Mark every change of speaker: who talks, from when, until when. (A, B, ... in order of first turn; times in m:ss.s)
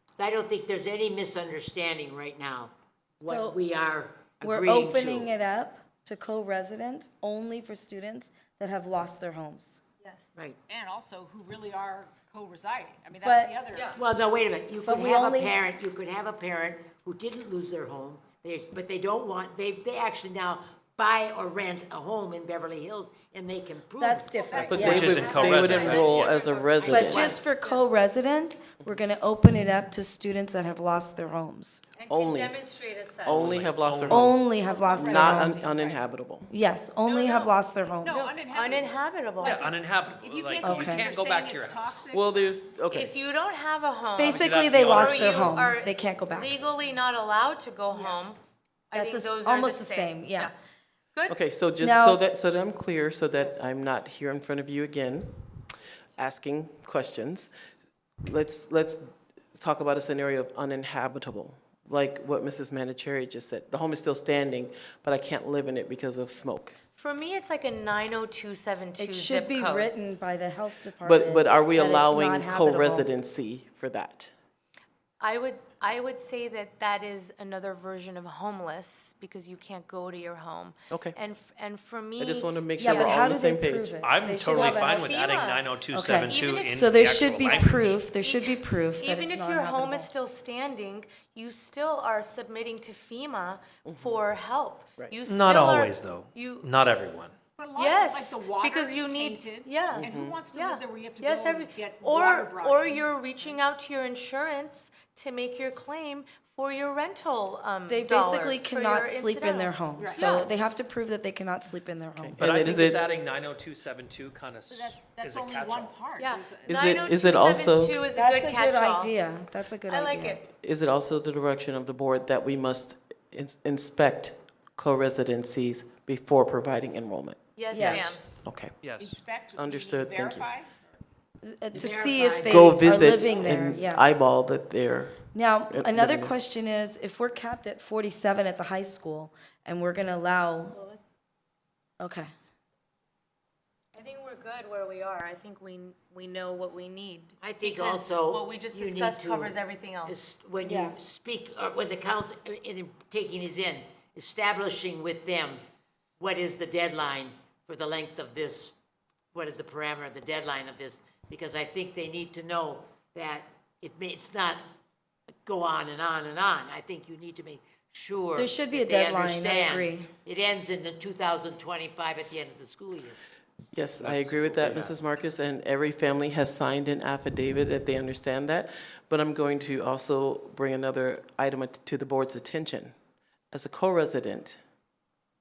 0:00.2-0:05.3 A
0:03.2-0:03.6 B
0:04.4-0:09.8 B
0:10.0-0:10.4 C
0:10.7-0:14.2 D
0:13.2-0:13.6 B
0:14.0-0:26.1 A
0:14.8-0:15.6 B
0:24.0-0:24.9 B
0:24.3-0:25.7 D
0:24.5-0:27.8 C
0:24.6-0:27.4 E
0:24.8-0:26.4 F
0:26.8-0:27.3 A
0:26.8-0:31.8 B
0:32.0-0:33.6 C
0:32.1-0:32.6 E
0:33.2-0:36.5 E
0:33.3-0:34.4 F
0:34.1-0:35.7 B
0:34.5-0:36.0 D
0:36.5-0:38.3 B
0:36.9-0:42.3 D
0:38.5-0:39.8 C
0:39.4-0:42.0 F
0:40.6-0:41.0 B
0:42.1-0:43.1 E
0:42.9-0:48.4 C
0:44.2-0:46.6 B
0:44.2-0:45.6 F
0:47.9-0:48.2 D
0:48.9-0:50.6 C
0:48.9-0:50.5 B
0:51.3-0:55.4 E
0:51.8-0:52.2 B
0:56.2-0:57.5 E
0:58.2-1:06.8 E
1:07.0-1:09.9 C
1:09.0-1:13.1 B
1:11.0-1:14.3 E
1:15.2-1:23.2 C
1:20.9-1:21.2 E
1:22.2-1:24.1 E
1:22.8-1:25.2 B
1:24.0-1:28.0 F
1:24.5-1:25.6 C
1:25.9-1:30.1 B
1:26.2-1:26.9 C
1:28.2-1:36.7 C
1:33.9-1:34.2 E
1:35.3-1:37.4 F
1:37.6-1:43.5 D
1:37.8-1:50.5 C
1:40.0-1:40.4 E
1:47.9-1:52.4 B
1:50.0-1:50.4 D
1:52.2-1:53.0 E
1:52.4-1:56.0 F
1:54.7-1:56.8 D
1:56.2-1:59.2 C
1:56.7-1:58.0 E
1:58.1-2:00.5 B
1:59.8-2:00.4 C
2:00.5-2:08.8 E
2:07.6-2:08.4 C
2:07.7-2:08.4 B
2:08.8-2:09.2 F
2:09.0-2:11.0 D
2:09.6-2:10.5 E
2:11.4-2:14.3 B
2:11.7-2:13.6 A
2:12.4-2:16.3 E
2:15.3-2:20.8 B
2:20.7-2:21.1 C
2:22.0-2:22.3 B
2:24.0-2:30.3 C
2:27.4-2:35.6 A
2:30.6-2:31.0 B
2:36.2-2:38.7 A
2:39.3-2:44.6 A
2:45.4-2:53.2 A
2:48.4-2:50.1 B
2:53.7-3:02.9 E
2:54.0-2:55.0 F
3:03.5-3:04.6 E